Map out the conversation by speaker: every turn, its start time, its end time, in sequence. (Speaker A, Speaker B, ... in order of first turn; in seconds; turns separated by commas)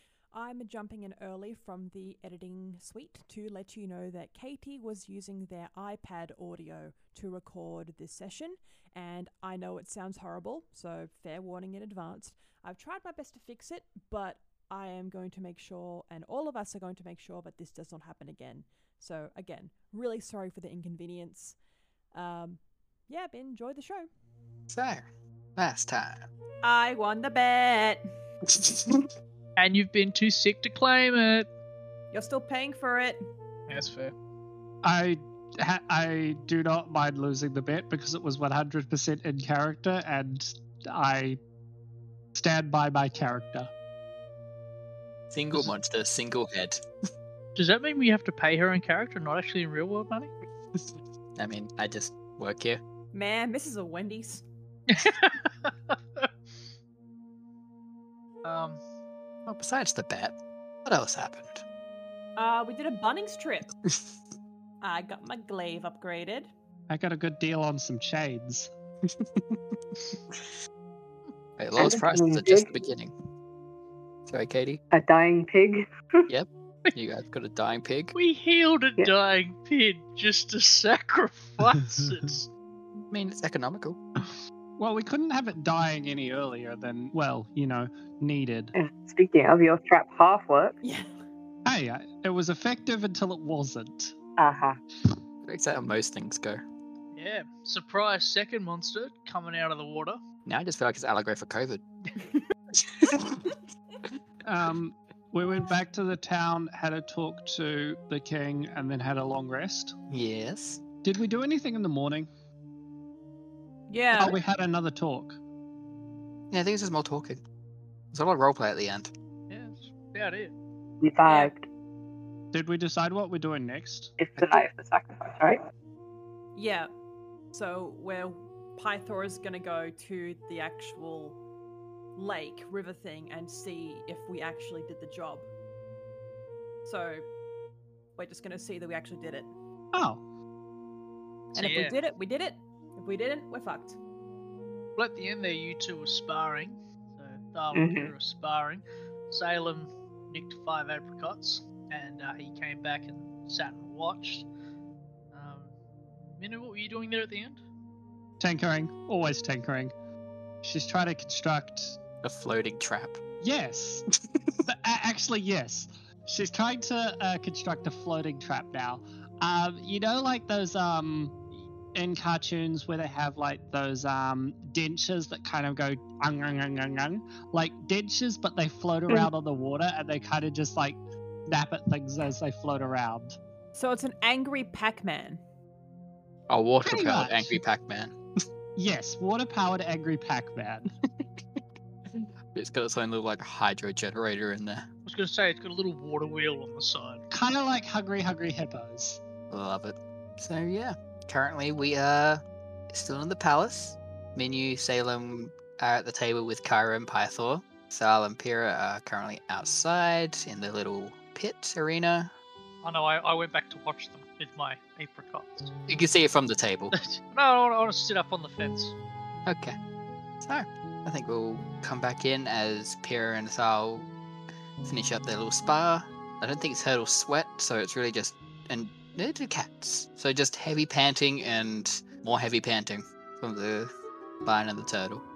Speaker A: 0.3-21.6, Speaker A: 22.1-24.1, Speaker B: 24.7-26.2, Speaker A: 26.6-28.0, Speaker B: 28.5-29.1, Speaker C: 29.6-31.5, Speaker A: 32.1-33.2, Speaker C: 33.7-34.1, Speaker D: 34.8-41.4, Speaker D: 42.3-43.7, Speaker B: 45.3-46.8, Speaker C: 47.5-50.3, Speaker B: 50.8-52.8, Speaker A: 53.1-54.4, Speaker C: 54.9-56.3, Speaker C: 58.4-58.8, Speaker B: 59.5-61.6, Speaker A: 62.4-63.7, Speaker A: 64.8-66.5, Speaker D: 66.9-68.7, Speaker B: 69.1-69.6, Speaker B: 71.6-73.1, Speaker E: 71.8-72.7, Speaker B: 74.3-74.8, Speaker E: 74.9-75.8, Speaker B: 76.3-78.1, Speaker C: 78.1-82.5, Speaker B: 83.1-84.0, Speaker D: 84.2-88.7, Speaker E: 88.7-90.8, Speaker A: 90.8-91.1, Speaker D: 91.7-94.1, Speaker E: 94.4-94.8, Speaker B: 95.4-96.6, Speaker C: 97.1-100.2, Speaker B: 100.5-101.8, Speaker B: 102.8-103.4, Speaker D: 104.4-109.9, Speaker B: 110.1-110.8, Speaker D: 111.0-112.3, Speaker A: 113.9-114.3, Speaker D: 114.2-115.4, Speaker B: 116.5-117.4, Speaker B: 118.1-119.1, Speaker C: 119.5-120.5, Speaker E: 121.0-121.7, Speaker A: 121.2-121.5, Speaker D: 122.5-124.1, Speaker E: 124.2-125.6, Speaker A: 126.5-126.9, Speaker A: 127.5-131.4, Speaker A: 132.2-135.5, Speaker A: 136.8-137.2, Speaker A: 138.2-139.5, Speaker D: 139.9-140.2, Speaker C: 141.5-141.9, Speaker A: 141.5-144.0, Speaker C: 145.0-154.5, Speaker E: 147.7-148.1, Speaker C: 155.3-155.7, Speaker C: 156.4-157.6, Speaker D: 158.4-159.9, Speaker D: 160.6-162.0, Speaker B: 162.2-163.2, Speaker D: 163.4-164.0, Speaker D: 164.7-171.4, Speaker D: 171.9-183.4, Speaker A: 183.7-185.4, Speaker B: 186.5-188.1, Speaker D: 186.8-187.6, Speaker D: 188.8-190.9, Speaker B: 192.1-194.8, Speaker C: 195.1-197.2, Speaker D: 197.3-199.2, Speaker B: 199.5-212.3, Speaker C: 212.8-215.7, Speaker B: 215.9-216.9, Speaker C: 216.9-218.9, Speaker B: 219.4-219.8, Speaker B: 220.4-224.1, Speaker B: 224.8-233.9, Speaker B: 234.4-235.2